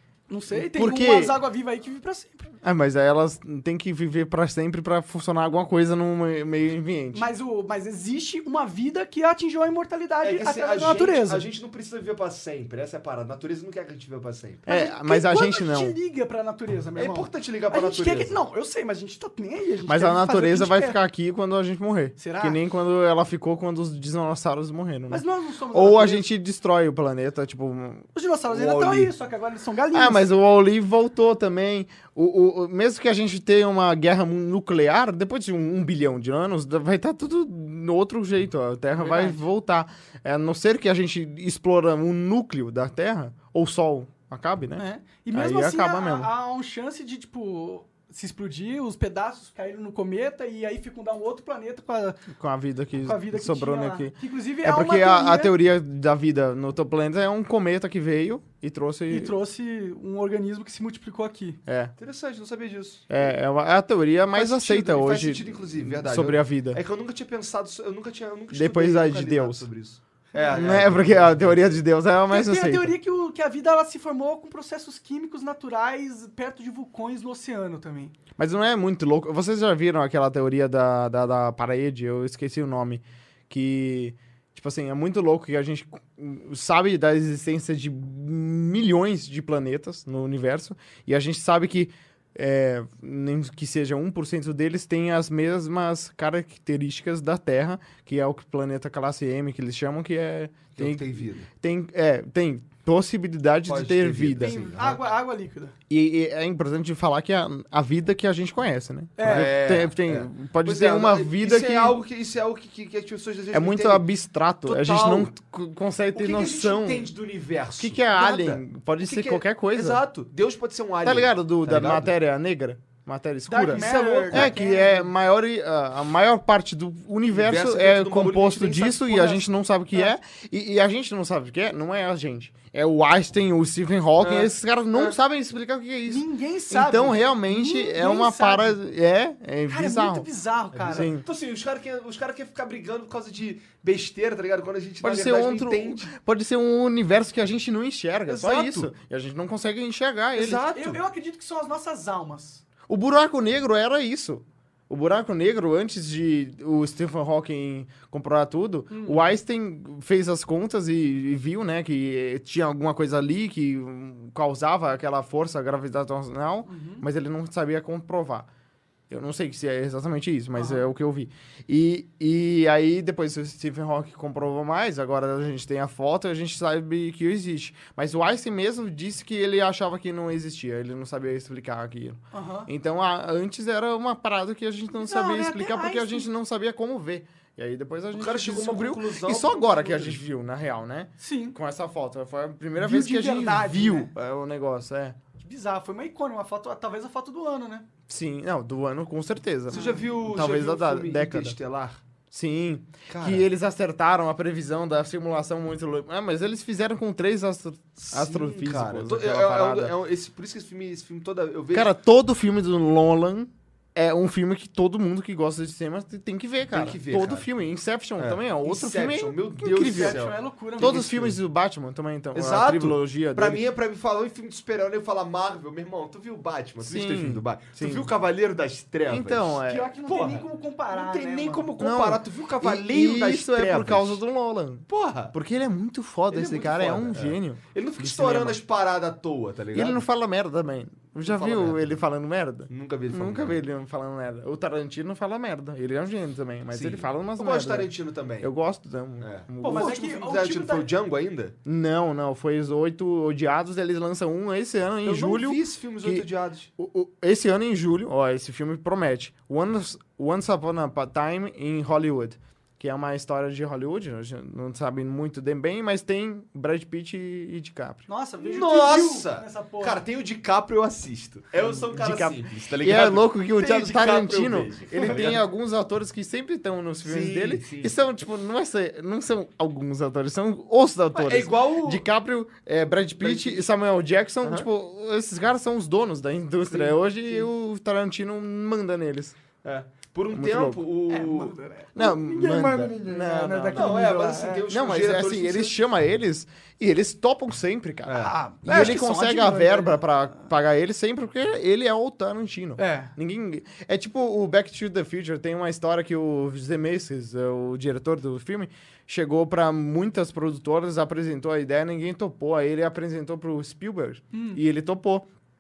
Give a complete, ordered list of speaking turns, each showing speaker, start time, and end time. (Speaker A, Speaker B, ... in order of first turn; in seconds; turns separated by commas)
Speaker A: 0.3-2.5, Speaker B: 0.5-1.4, Speaker B: 2.6-7.3, Speaker A: 7.1-11.4, Speaker C: 10.2-14.7, Speaker B: 14.7-15.9, Speaker A: 14.7-21.0, Speaker C: 17.0-18.4, Speaker B: 19.9-28.1, Speaker A: 22.2-22.6, Speaker A: 25.1-26.3, Speaker A: 28.1-30.3, Speaker C: 28.5-29.1, Speaker B: 29.9-46.3, Speaker A: 39.0-39.4, Speaker A: 44.8-52.2, Speaker B: 52.3-59.3, Speaker A: 53.0-55.5, Speaker A: 59.1-61.6, Speaker B: 61.7-61.9, Speaker C: 62.0-63.2, Speaker B: 63.1-66.8, Speaker A: 64.4-65.0, Speaker C: 64.8-71.8, Speaker B: 68.5-69.7, Speaker A: 70.3-70.7, Speaker B: 70.5-72.9, Speaker A: 72.3-78.1, Speaker B: 78.4-104.5, Speaker C: 100.7-101.5, Speaker C: 103.7-105.0, Speaker A: 104.4-105.8, Speaker B: 105.9-112.0, Speaker A: 109.2-109.5, Speaker C: 109.2-114.0, Speaker B: 113.5-117.1, Speaker C: 114.7-115.3, Speaker C: 116.1-122.1, Speaker B: 117.8-120.0, Speaker B: 121.0-140.3, Speaker A: 123.5-125.1, Speaker C: 123.7-124.6, Speaker C: 127.3-129.5, Speaker C: 134.2-135.2, Speaker A: 136.1-138.8, Speaker A: 139.7-141.1, Speaker C: 140.7-146.1, Speaker B: 140.9-141.2, Speaker B: 145.0-150.7, Speaker C: 148.3-148.9, Speaker C: 150.4-151.0, Speaker A: 150.7-152.6, Speaker B: 152.9-168.5, Speaker A: 158.9-159.2, Speaker A: 166.7-167.1, Speaker B: 169.1-195.2, Speaker A: 170.6-170.8, Speaker A: 182.3-182.7, Speaker A: 184.9-186.3, Speaker C: 188.1-190.2, Speaker A: 191.2-191.6, Speaker A: 192.8-194.1, Speaker A: 195.4-197.9, Speaker B: 198.1-201.6, Speaker C: 199.7-202.0, Speaker A: 199.7-200.1, Speaker B: 202.3-209.9, Speaker C: 203.1-203.4, Speaker C: 208.0-211.9, Speaker B: 211.7-220.2, Speaker C: 216.7-217.5, Speaker C: 218.2-221.4, Speaker A: 219.7-221.0, Speaker B: 220.8-223.6, Speaker C: 222.3-234.2, Speaker B: 226.8-228.1, Speaker B: 229.1-229.9, Speaker A: 229.7-231.7, Speaker B: 231.8-238.6, Speaker C: 234.9-235.3, Speaker C: 236.3-240.0, Speaker B: 239.7-247.9, Speaker C: 241.2-242.0, Speaker C: 242.7-243.6, Speaker C: 246.7-248.5, Speaker B: 248.4-250.0, Speaker C: 249.2-251.6, Speaker A: 249.6-250.9, Speaker B: 251.7-256.3, Speaker C: 255.1-256.7, Speaker B: 256.8-268.0, Speaker A: 268.1-270.0, Speaker C: 268.4-275.4, Speaker B: 271.7-289.4, Speaker C: 277.0-277.9, Speaker C: 281.1-282.1, Speaker C: 283.2-283.7, Speaker C: 286.7-287.4, Speaker C: 289.6-291.5, Speaker B: 290.3-290.8, Speaker A: 291.1-294.6, Speaker B: 291.9-294.0, Speaker C: 293.7-295.8, Speaker B: 294.7-315.3, Speaker C: 298.1-299.0, Speaker A: 298.2-300.0, Speaker A: 302.8-303.1, Speaker A: 314.3-314.6